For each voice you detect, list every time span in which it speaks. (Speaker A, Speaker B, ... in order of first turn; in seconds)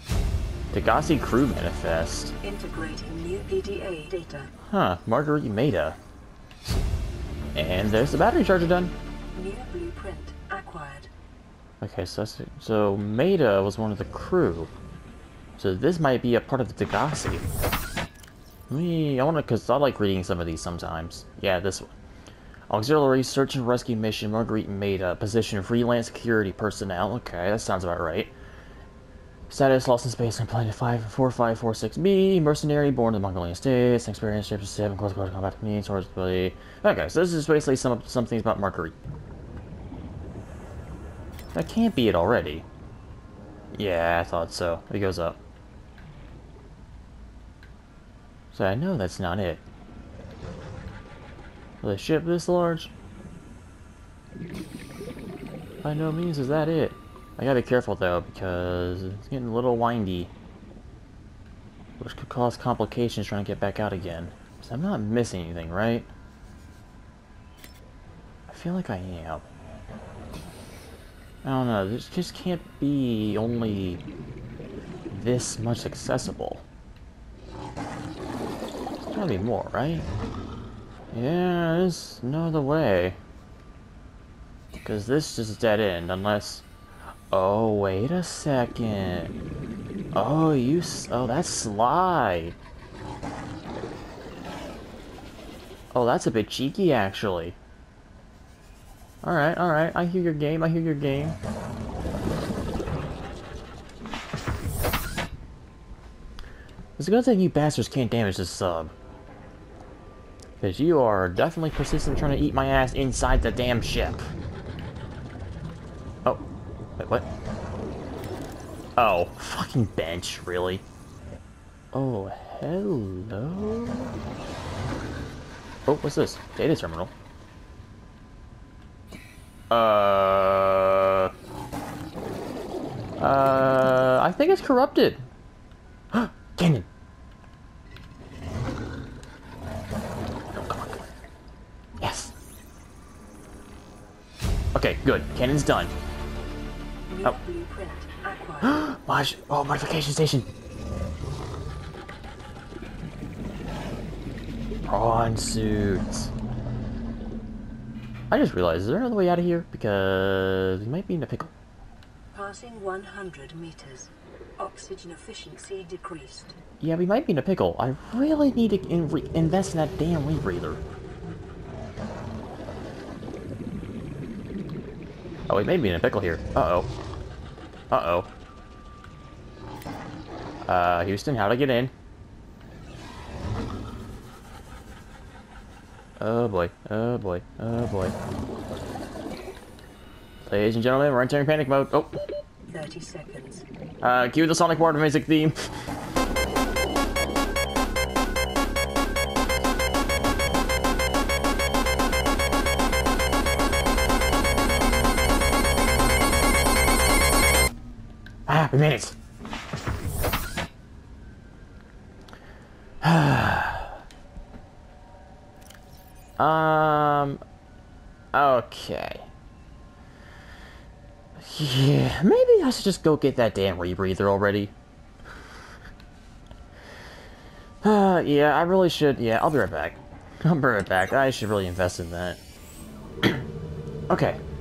Speaker A: 0.7-2.3, 4.6-6.0, 7.5-8.9, 11.8-14.7, 15.6-17.4, 18.7-21.9, 22.7-28.3, 29.5-39.0, 41.5-42.6, 43.7-45.4, 48.5-49.6, 51.8-52.9, 55.8-60.3, 62.0-66.1, 68.5-69.4, 71.4-74.0, 75.1-76.6, 79.0-80.1, 81.1-83.2, 84.8-86.6, 87.3-89.3, 90.1-92.5, 95.9-97.6, 99.2-101.4, 107.0-108.9, 110.6-114.2, 117.0-117.3, 119.0-120.8, 121.9-124.2, 125.8-127.1, 129.7-131.3, 133.2-135.2, 136.1-136.9, 140.5-141.0, 142.0-142.3, 144.7-145.9, 148.6-150.5, 154.8-156.3, 158.3-161.5, 166.8-170.8, 175.5-176.9, 177.9-178.3, 180.7-181.9, 186.2-188.2, 190.4-192.2, 194.0-195.7, 208.5-209.1, 213.0-214.0, 216.4-217.4, 218.3-219.3, 221.4-224.7, 227.8-232.4, 234.1-234.4
Speaker B: 2.4-4.5, 9.3-11.1, 147.1-148.8, 162.3-166.6, 192.7-193.6